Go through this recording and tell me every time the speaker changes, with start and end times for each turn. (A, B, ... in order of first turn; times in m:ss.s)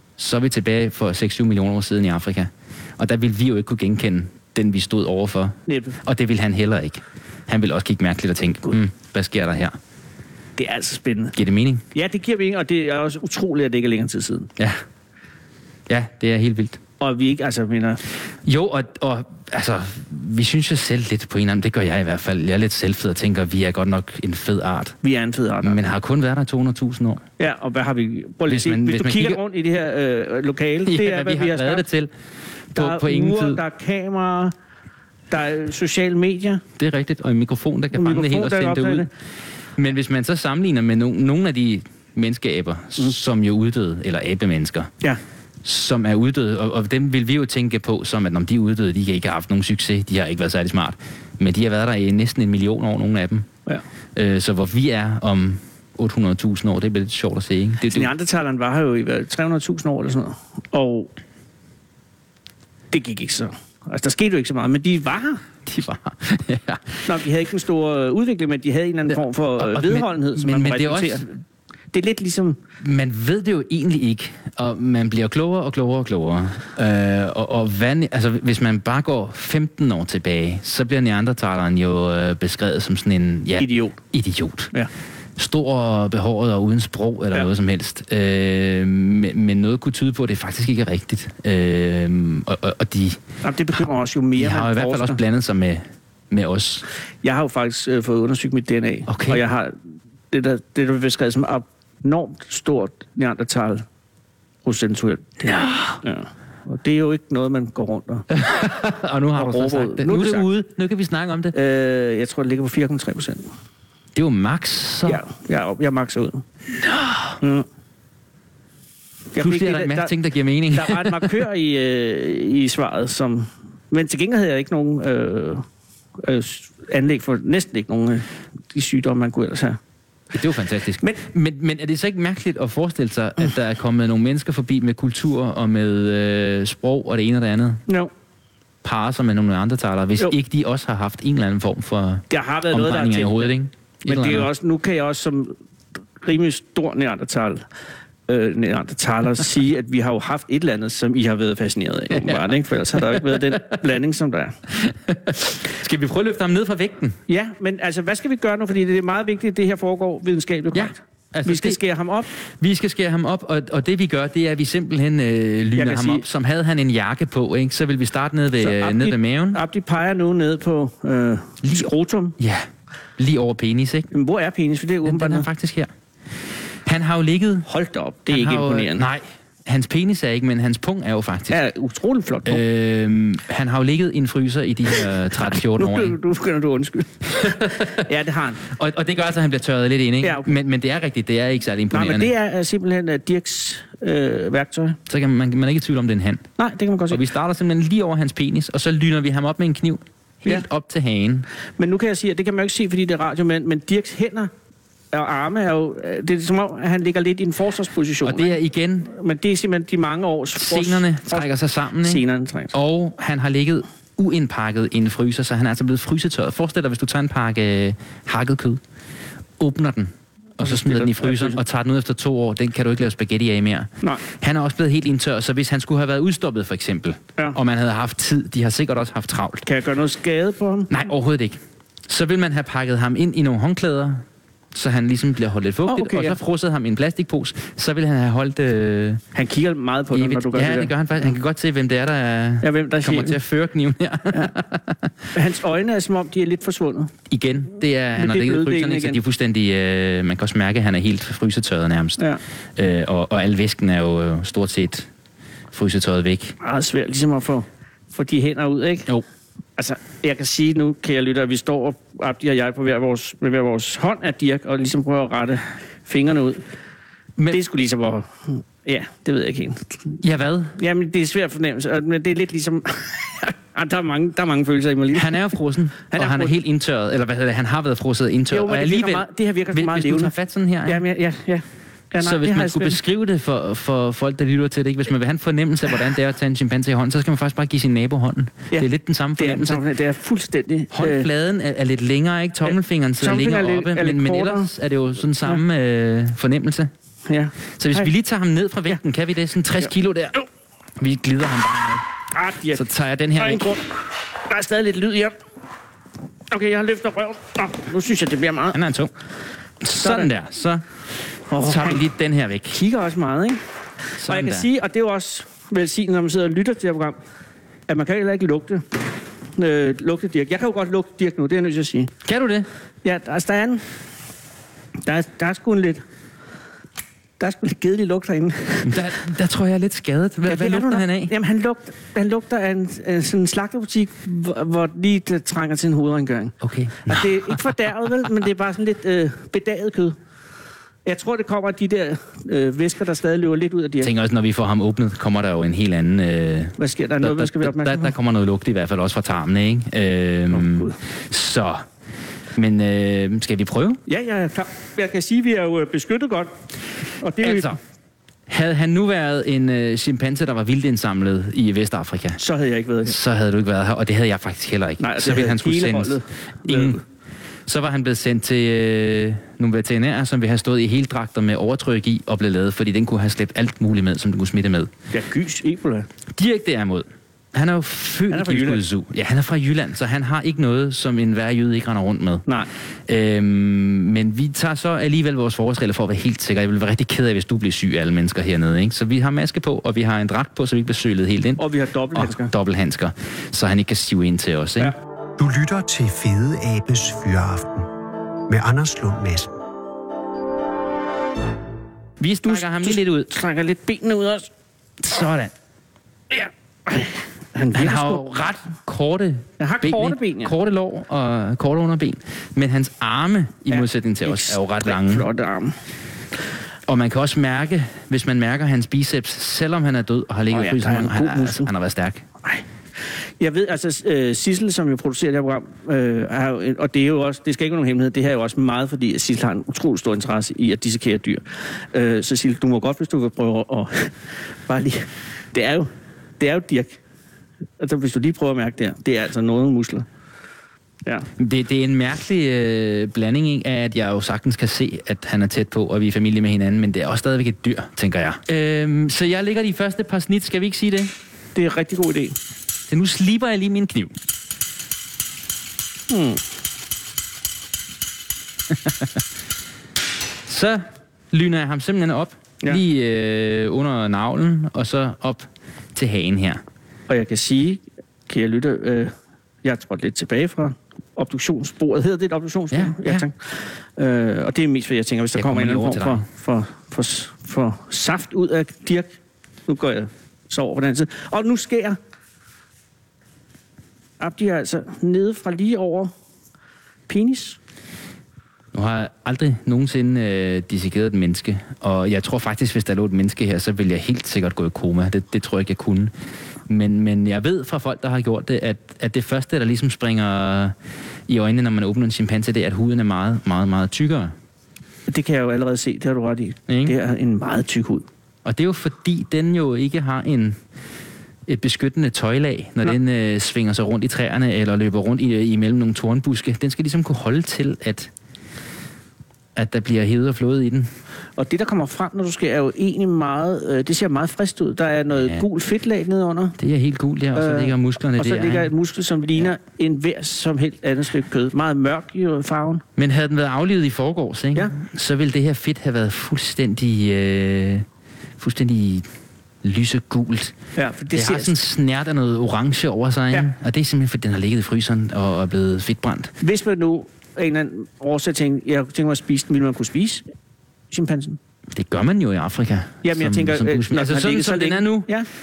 0:00.2-0:09.8 A
0:05.7-0:06.0 B
0:10.6-0:11.3 B
0:11.3-0:11.8 A
0:11.9-0:14.5 B
0:15.9-0:16.8 A
0:17.0-0:18.0 B
0:18.4-0:25.0 A
0:25.0-0:25.8 B
0:25.6-0:27.2 A
0:27.4-0:31.8 B
0:28.5-0:29.4 A
0:30.9-0:32.1 A
0:32.7-0:33.6 A
0:32.8-0:34.5 B
0:35.3-0:36.6 B
0:36.8-0:39.1 A
0:37.9-0:39.1 B
0:39.8-0:44.9 A
0:45.6-0:53.5 A
0:54.1-0:58.1 A
0:57.9-1:01.1 B
1:02.9-1:05.4 B
1:05.6-1:07.0 A
1:07.0-1:11.3 B
1:09.6-1:11.3 A
1:11.9-1:12.6 B
1:12.8-1:24.7 A
1:23.6-1:24.0 B
1:25.4-1:33.2 A
1:33.4-1:35.2 B
1:34.4-1:36.8 A
1:37.2-1:39.8 B
1:39.1-1:39.4 A
1:40.3-1:43.8 B
1:44.6-1:48.3 B
1:45.5-1:46.0 A
1:48.3-1:51.5 A
1:49.4-1:50.4 B
1:51.5-1:53.5 B
1:54.1-1:55.2 A
1:55.1-1:56.4 B
1:56.8-1:57.4 A
1:57.4-1:57.6 B
1:59.3-2:00.1 B
1:59.4-2:01.4 A
2:00.7-2:05.6 B
2:06.2-2:09.8 B
2:10.3-2:17.8 A
2:18.8-2:24.5 A
2:22.3-2:23.5 B
2:24.0-2:25.5 B
2:26.2-2:27.7 B
2:28.3-2:34.6 B
2:32.2-2:33.7 A
2:34.7-2:37.2 A
2:37.3-2:42.3 B
2:40.7-2:41.8 A
2:42.6-2:49.6 A
2:45.8-2:46.2 B
2:48.6-2:52.4 B
2:51.6-2:54.1 A
2:54.1-2:55.5 B
2:55.0-2:55.9 A
2:56.8-2:57.6 A
2:57.6-2:59.0 B
2:58.3-3:01.6 A
3:01.5-3:02.6 B
3:02.4-3:06.2 A
3:05.8-3:08.6 B
3:07.3-3:08.0 A
3:08.6-3:12.3 A
3:10.2-3:10.5 B
3:11.9-3:15.0 B
3:15.1-3:16.5 A
3:16.6-3:17.2 B
3:17.1-3:21.5 A
3:21.8-3:24.5 B
3:25.1-3:28.5 B
3:28.2-3:29.1 A
3:29.1-3:31.5 B
3:30.6-3:38.8 A
3:32.0-3:32.7 B
3:39.6-3:49.6 A
3:40.6-3:41.6 B
3:49.6-3:50.9 B
3:50.9-3:59.2 A
3:55.9-3:56.4 B
3:59.3-4:01.3 B
4:00.1-4:05.3 A
4:02.6-4:03.4 B
4:05.3-4:07.1 B
4:07.3-4:12.2 A
4:08.2-4:09.2 B
4:12.8-4:15.1 A
4:15.7-4:16.5 A
4:16.6-4:19.1 B
4:19.8-4:26.6 B
4:27.5-4:30.2 B
4:30.2-4:30.8 A
4:30.8-4:35.5 B
4:35.1-4:41.0 A
4:36.1-4:36.5 B
4:38.5-4:40.3 B
4:40.8-4:43.0 B
4:42.2-4:49.8 A
4:48.7-4:51.3 B
4:50.9-4:56.9 A
4:52.6-4:54.7 B
4:57.2-4:58.1 B
4:57.8-5:00.4 A
5:01.0-5:02.0 A
5:02.3-5:02.8 B
5:02.7-5:03.6 A
5:03.4-5:05.4 B
5:06.5-5:08.8 B
5:08.7-5:09.1 A
5:09.8-5:10.8 A
5:09.9-5:10.3 B
5:11.5-5:12.0 B
5:11.6-5:12.8 A
5:12.7-5:13.6 B
5:14.2-5:14.7 A
5:14.2-5:17.2 B
5:17.9-5:19.0 B
5:19.6-5:22.1 B
5:22.2-5:22.7 A
5:23.0-5:23.8 B
5:25.0-5:26.0 B
5:27.4-5:29.0 B
5:28.8-5:31.3 A
5:30.4-5:36.5 B
5:36.6-5:37.7 A
5:37.0-5:40.2 B
5:41.0-5:44.1 B
5:44.0-5:51.8 A
5:46.8-5:48.1 B
5:50.5-5:51.0 B
5:52.6-5:54.0 A
5:54.1-5:56.5 B
5:57.2-5:57.8 B
5:57.4-5:57.8 A
5:58.5-6:02.4 A
6:02.4-6:03.2 B
6:03.0-6:07.0 A
6:05.0-6:07.0 B
6:07.7-6:14.9 A
6:15.1-6:16.1 B
6:16.4-6:22.5 A
6:18.3-6:18.8 B
6:23.1-6:31.6 A
6:31.6-6:32.5 B
6:32.1-6:34.9 A
6:35.4-6:37.9 C
6:38.5-6:39.6 C
6:42.2-6:43.3 A
6:42.4-6:44.5 B
6:45.0-6:45.5 A
6:46.3-6:48.2 B
6:47.7-6:55.3 A
6:49.6-6:50.5 B
6:53.7-6:55.8 B
6:56.9-7:02.2 A
7:00.5-7:01.7 B
7:02.4-7:14.2 B
7:14.7-7:17.0 B
7:17.8-7:20.0 B
7:21.4-7:31.1 A
7:31.5-7:32.4 B
7:32.9-7:34.1 A
7:36.1-7:36.4 B
7:38.7-7:39.2 A
7:40.5-7:46.6 A
7:47.1-7:49.1 B
7:49.6-7:59.1 B
7:52.7-7:53.2 A
7:55.3-7:56.2 A
7:59.6-8:02.0 B
8:04.2-8:06.1 B
8:07.1-8:07.6 B
8:08.7-8:16.1 A
8:16.7-8:20.7 A
8:21.3-8:24.3 A
8:25.1-8:28.1 B
8:26.7-8:27.0 A
8:28.4-8:30.6 A
8:31.5-8:38.1 A
8:39.6-8:40.9 A
8:41.4-8:46.6 B
8:46.6-8:48.7 A
8:47.3-8:52.8 B
8:53.0-8:57.8 A
8:58.4-8:59.1 A
8:59.6-9:00.5 A
9:00.8-9:01.5 B
9:01.1-9:06.3 A
9:06.4-9:10.2 B
9:10.9-9:11.4 B
9:11.7-9:15.1 A
9:13.0-9:15.3 B